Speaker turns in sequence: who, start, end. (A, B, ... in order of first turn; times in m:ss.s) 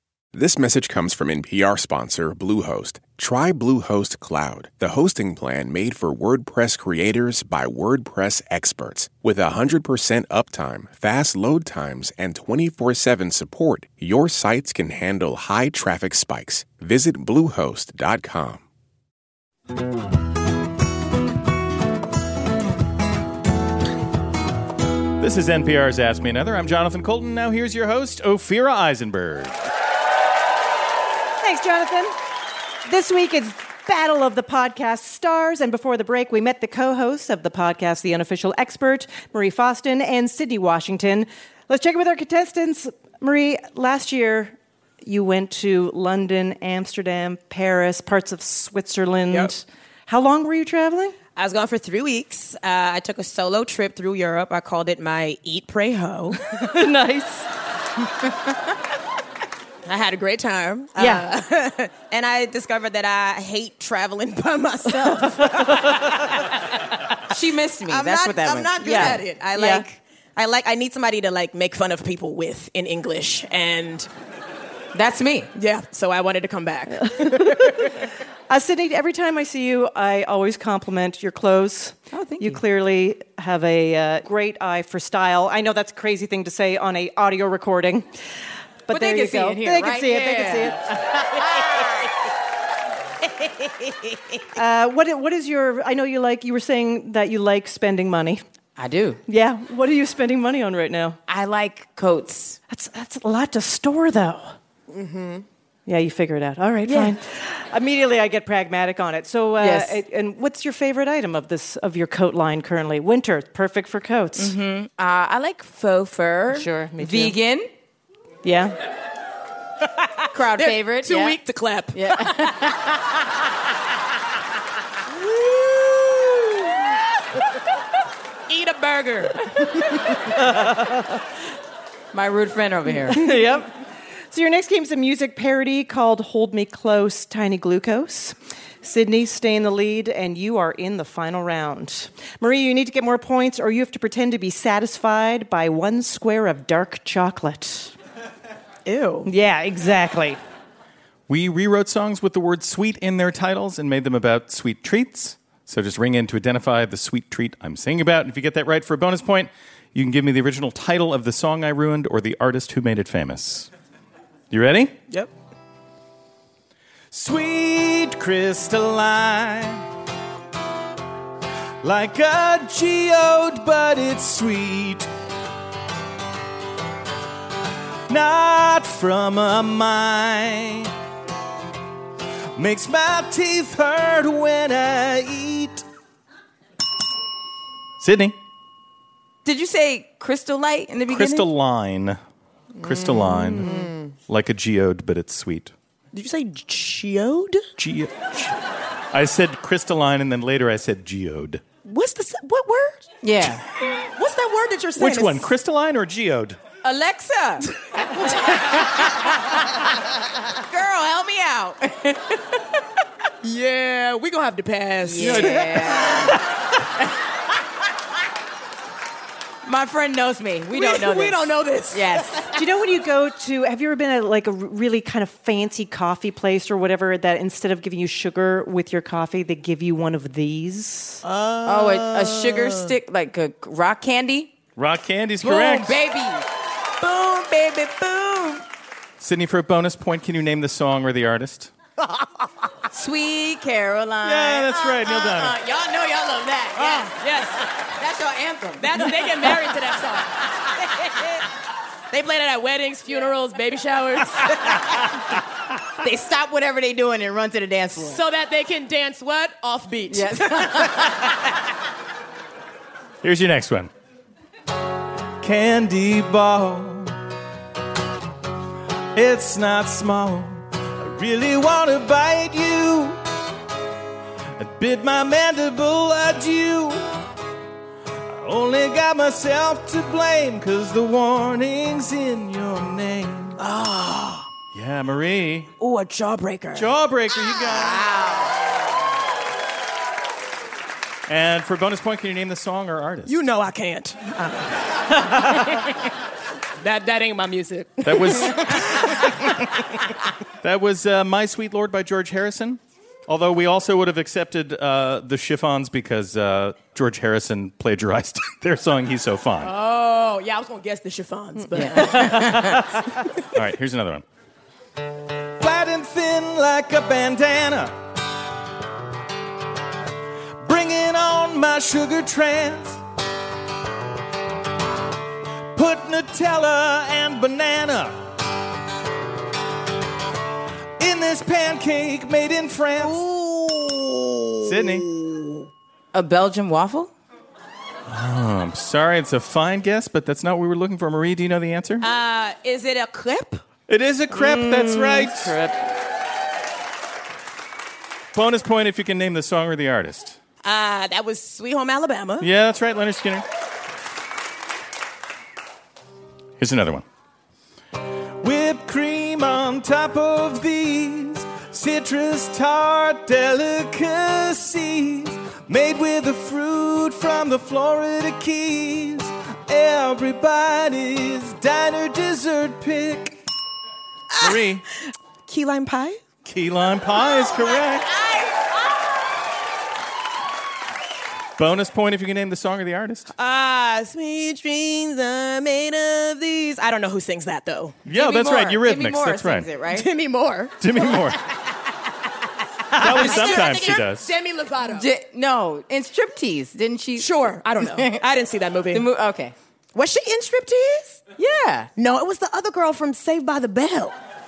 0:00.3-0:18.6 A
0:25.2-0:29.7 B
0:31.4-0:32.1 C
0:32.9-0:51.2 C
0:51.4-0:56.6 D
0:56.5-0:57.5 C
0:59.9-1:06.2 D
1:01.0-1:01.3 C
1:05.0-1:06.0 C
1:07.3-1:09.2 E
1:07.9-1:14.1 D
1:08.8-1:09.9 C
1:14.9-1:15.5 E
1:15.6-1:17.8 D
1:17.1-1:17.9 C
1:18.5-1:28.1 C
1:22.1-1:22.6 E
1:28.9-1:31.2 C
1:28.9-1:31.0 E
1:34.6-1:38.4 C
1:38.8-1:39.2 E
1:39.3-1:41.2 C
1:41.3-1:42.6 E
1:42.7-1:44.6 C
1:44.9-1:45.4 D
1:45.9-1:54.6 C
1:46.9-1:47.2 E
1:49.6-1:50.0 E
1:54.4-1:57.7 E
1:56.5-1:57.4 C
1:58.4-1:58.8 C
2:00.3-2:01.4 E
2:00.5-2:02.6 D
2:01.9-2:02.9 E
2:05.2-2:06.5 D
2:08.5-2:09.4 D
2:10.4-2:11.0 C
2:12.1-2:13.3 E
2:13.1-2:13.7 C
2:14.3-2:27.9 C
2:28.9-2:29.3 D
2:29.3-2:30.4 C
2:31.3-2:43.7 B
2:44.5-2:44.9 B
2:47.1-2:49.8 B
2:51.8-2:55.1 B
2:58.1-3:00.9 B
3:02.6-3:05.8 B
3:08.0-3:08.4 B
3:09.4-3:11.5 E
3:11.1-3:12.2 B
3:12.8-3:13.7 B
3:12.8-3:14.1 D
3:14.3-3:15.7 B
3:16.1-3:17.6 D
3:17.8-3:18.6 B
3:19.1-3:21.6 B
3:21.8-3:23.2 D
3:23.2-3:23.6 E
3:24.2-3:25.5 D
3:25.0-3:26.6 B
3:26.8-3:27.6 E
3:30.7-3:32.4 E
3:33.4-3:36.3 D
3:35.0-3:36.4 E
3:39.6-3:41.4 E
3:40.7-3:42.5 D
3:41.9-3:42.5 E
3:42.6-3:51.2 C
3:51.2-3:52.9 D
3:51.6-3:54.6 E
3:54.8-3:56.0 B
3:55.4-3:56.4 E
3:57.0-3:58.6 E
3:59.2-4:01.7 B
4:02.9-4:07.2 E
4:04.2-4:05.5 B
4:06.8-4:07.6 D
4:08.0-4:09.1 E
4:08.8-4:10.4 D
4:12.1-4:14.8 D
4:16.0-4:18.2 E
4:18.0-4:21.1 D
4:20.1-4:21.3 E
4:23.2-4:23.9 B
4:25.4-4:27.2 B
4:29.2-4:33.2 B
4:34.6-4:37.1 B
4:38.3-4:43.6 B
4:43.6-4:44.5 D
4:44.7-4:45.7 B
4:45.8-4:46.9 D
4:46.8-4:48.1 B
4:47.6-4:48.6 D
4:51.3-4:53.4 B
4:53.3-4:55.9 D
4:56.8-4:59.5 D
4:58.0-4:59.1 B
5:00.6-5:09.7 B
5:09.6-5:12.6 D
5:11.7-5:12.8 E
5:12.0-5:12.8 C
5:13.5-5:14.2 B
5:15.6-5:18.0 B
5:20.6-5:23.0 B
5:25.7-5:28.2 B
5:31.0-5:33.2 B
5:33.0-5:35.7 D
5:34.6-5:35.1 B
5:36.1-5:37.1 E
5:38.1-5:42.0 B
5:42.0-5:43.6 D
5:43.9-5:45.6 B
5:44.3-5:45.8 C
5:48.3-5:50.4 B
5:50.6-5:52.5 D
5:52.4-5:53.4 B
5:56.6-5:57.0 B
5:58.4-6:13.4 B
6:14.3-6:14.6 D
6:14.4-6:14.8 B
6:15.5-6:16.2 D
6:16.4-6:18.1 B
6:17.5-6:18.7 D
6:21.6-6:23.3 B
6:23.4-6:28.0 D
6:28.1-6:29.7 B
6:28.1-6:30.1 E
6:29.9-6:30.8 D
6:30.8-6:31.4 B
6:32.9-6:35.1 D
6:33.0-6:34.3 B
6:33.1-6:33.6 E
6:34.9-6:38.2 E
6:37.2-6:39.0 D
6:38.9-6:39.6 E
6:39.9-6:41.2 D
6:41.4-6:41.9 E
6:42.0-6:44.2 D